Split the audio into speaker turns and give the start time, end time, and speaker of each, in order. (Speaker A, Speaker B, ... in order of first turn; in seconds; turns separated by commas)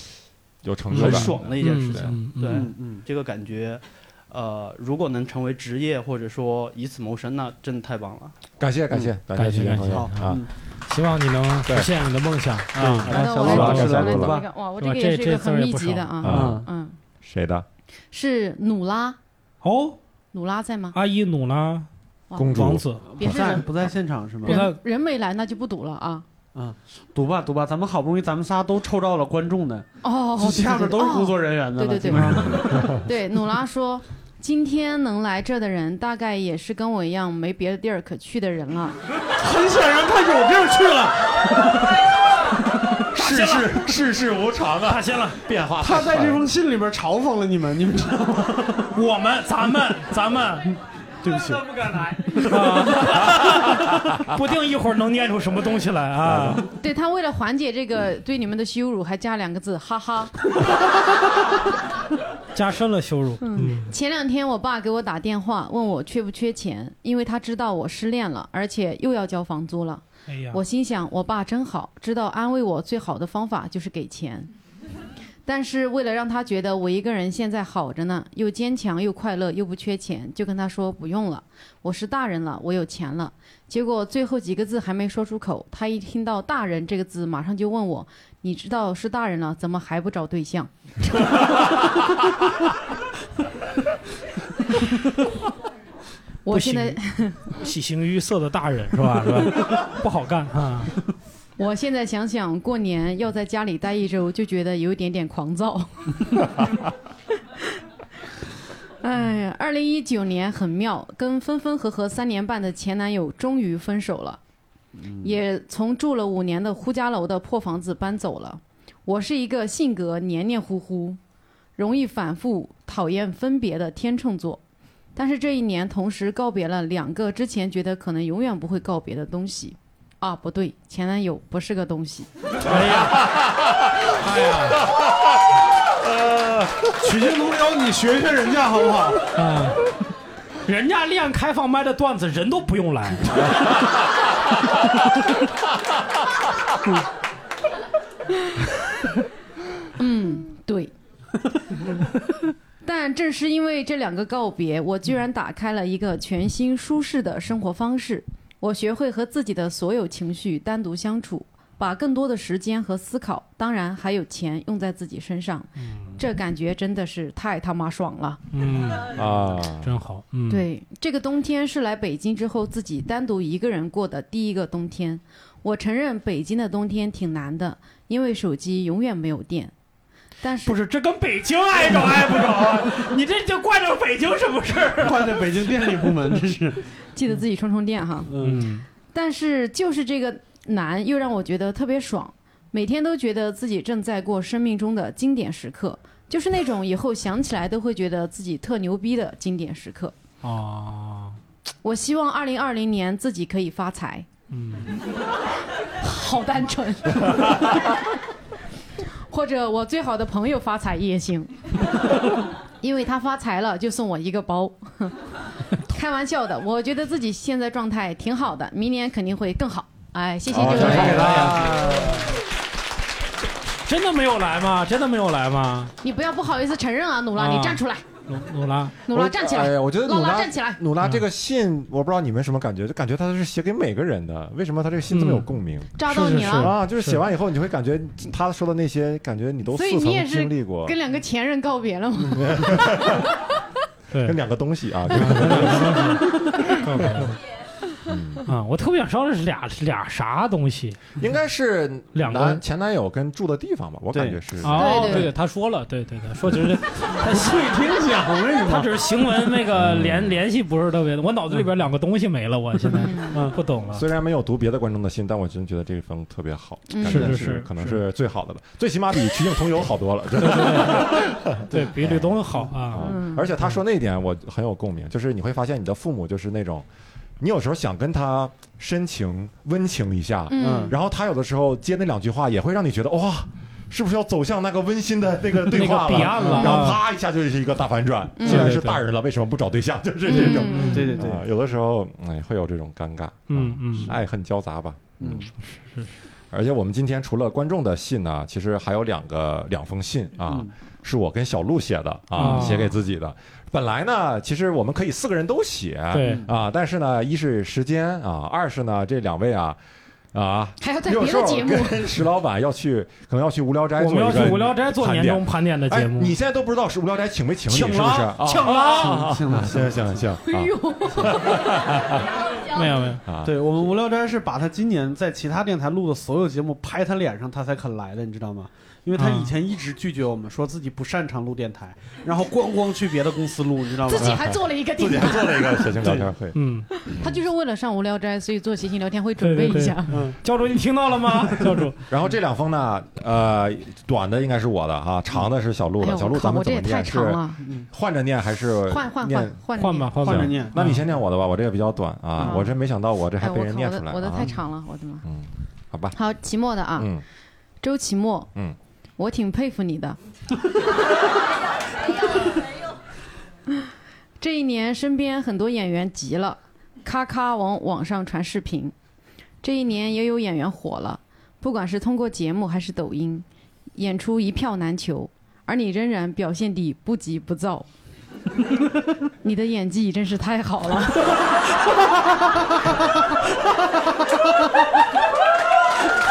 Speaker A: 0.6-2.1, Speaker B: 0.9-2.7, Speaker C: 0.9-8.4, Speaker D: 2.4-3.0, Speaker A: 8.6-10.4, Speaker B: 9.3-14.0, Speaker D: 9.9-10.5, Speaker D: 12.8-14.4, Speaker A: 13.0-14.4, Speaker E: 13.1-17.0, Speaker B: 14.8-16.4, Speaker A: 16.2-16.6, Speaker D: 16.2-16.7, Speaker A: 17.2-17.6, Speaker E: 18.1-19.2, Speaker B: 19.6-20.0, Speaker E: 20.3-21.0, Speaker B: 20.9-21.9, Speaker E: 22.3-22.6, Speaker A: 22.4-22.9, Speaker B: 22.5-23.1, Speaker D: 23.1-24.7, Speaker E: 23.2-23.7, Speaker E: 24.4-26.2, Speaker B: 24.5-24.8, Speaker D: 26.6-33.0, Speaker E: 30.0-39.0, Speaker A: 32.1-33.0, Speaker D: 39.4-42.0, Speaker A: 43.1-46.4, Speaker B: 43.2-43.8, Speaker B: 44.9-45.4, Speaker D: 45.8-48.9, Speaker B: 48.9-50.7, Speaker D: 51.2-53.0, Speaker B: 52.3-56.7, Speaker A: 53.2-53.8, Speaker A: 56.3-56.6, Speaker E: 56.7-60.4, Speaker B: 62.5-63.9, Speaker E: 63.4-74.5, Speaker B: 70.3-70.6, Speaker E: 75.5-91.3, Speaker E: 96.5-97.5, Speaker B: 96.5-97.0, Speaker B: 97.5-101.0, Speaker E: 101.6-106.6, Speaker E: 109.0-114.4, Speaker D: 115.0-115.4, Speaker E: 115.2-121.2, Speaker E: 121.8-124.6, Speaker E: 125.2-132.3, Speaker B: 132.6-133.3, Speaker B: 134.2-134.8, Speaker D: 136.9-139.2, Speaker B: 139.4-139.8, Speaker B: 140.7-143.8, Speaker E: 150.0-150.9, Speaker E: 152.8-168.4, Speaker B: 165.9-166.2, Speaker B: 168.5-169.3, Speaker A: 169.1-169.9, Speaker B: 169.8-170.7, Speaker E: 170.5-179.7, Speaker E: 180.4-180.8, Speaker B: 180.7-186.4, Speaker D: 184.9-186.8, Speaker E: 187.2-188.3, Speaker D: 188.3-188.7, Speaker B: 188.4-188.8, Speaker E: 189.1-200.2, Speaker B: 200.4-201.4, Speaker E: 201.8-204.3, Speaker B: 204.5-204.9, Speaker E: 206.0-207.9, Speaker E: 209.3-211.6, Speaker E: 212.8-215.2, Speaker E: 215.8-221.6, Speaker A: 220.5-222.3, Speaker B: 220.5-222.3, Speaker B: 223.8-225.9, Speaker E: 226.0-228.0, Speaker B: 227.4-229.0, Speaker E: 229.1-230.8, Speaker A: 229.1-241.0, Speaker B: 235.1-237.2, Speaker E: 236.0-236.7, Speaker E: 239.7-243.1, Speaker A: 242.3-243.3, Speaker B: 244.1-244.4, Speaker A: 244.2-246.2, Speaker B: 245.1-247.4, Speaker A: 246.7-247.3, Speaker A: 248.1-248.5, Speaker B: 248.5-251.1, Speaker A: 251.2-255.2, Speaker B: 252.2-252.6, Speaker D: 254.1-254.4, Speaker B: 254.6-257.8, Speaker E: 254.7-255.3, Speaker D: 257.1-259.1, Speaker B: 258.6-264.1, Speaker A: 259.7-260.4, Speaker E: 262.9-263.4, Speaker D: 263.3-263.6, Speaker A: 263.9-276.9, Speaker E: 266.9-267.3, Speaker B: 267.0-267.7, Speaker D: 267.2-267.9, Speaker B: 270.4-273.1, Speaker E: 273.0-273.5, Speaker A: 277.4-295.4, Speaker E: 280.5-280.9, Speaker D: 280.6-281.0, Speaker B: 285.7-287.0, Speaker D: 286.2-286.7, Speaker E: 286.5-286.8, Speaker E: 288.4-288.8, Speaker B: 288.4-289.0, Speaker E: 290.3-291.2, Speaker D: 290.3-291.4, Speaker B: 290.6-291.1, Speaker B: 293.5-294.1, Speaker D: 295.2-295.5, Speaker A: 296.5-309.8, Speaker D: 300.5-300.7, Speaker B: 302.3-302.9, Speaker D: 302.4-302.7, Speaker B: 306.1-306.4, Speaker D: 306.2-306.5, Speaker A: 310.3-322.3, Speaker E: 310.8-312.1, Speaker B: 314.0-316.4, Speaker B: 317.7-319.3, Speaker D: 319.0-320.1, Speaker E: 320.5-321.6, Speaker B: 322.7-323.2, Speaker A: 323.3-323.6, Speaker D: 323.4-334.4, Speaker B: 329.2-329.5, Speaker E: 334.0-335.9, Speaker A: 334.2-336.6, Speaker D: 336.0-336.3, Speaker B: 336.6-336.9, Speaker E: 337.0-340.2, Speaker B: 339.4-342.0, Speaker D: 340.1-340.4, Speaker D: 341.6-341.9, Speaker A: 342.1-349.6, Speaker E: 346.0-347.6, Speaker D: 347.6-347.9, Speaker E: 348.9-350.4, Speaker B: 349.8-351.0, Speaker A: 350.2-354.6, Speaker D: 350.3-350.7, Speaker E: 352.4-352.7, Speaker E: 353.4-355.2, Speaker A: 355.2-356.2, Speaker E: 356.1-357.1, Speaker A: 357.0-357.2, Speaker E: 357.8-358.5, Speaker E: 359.2-360.2, Speaker E: 364.4-368.9, Speaker E: 369.6-377.9, Speaker E: 379.4-381.4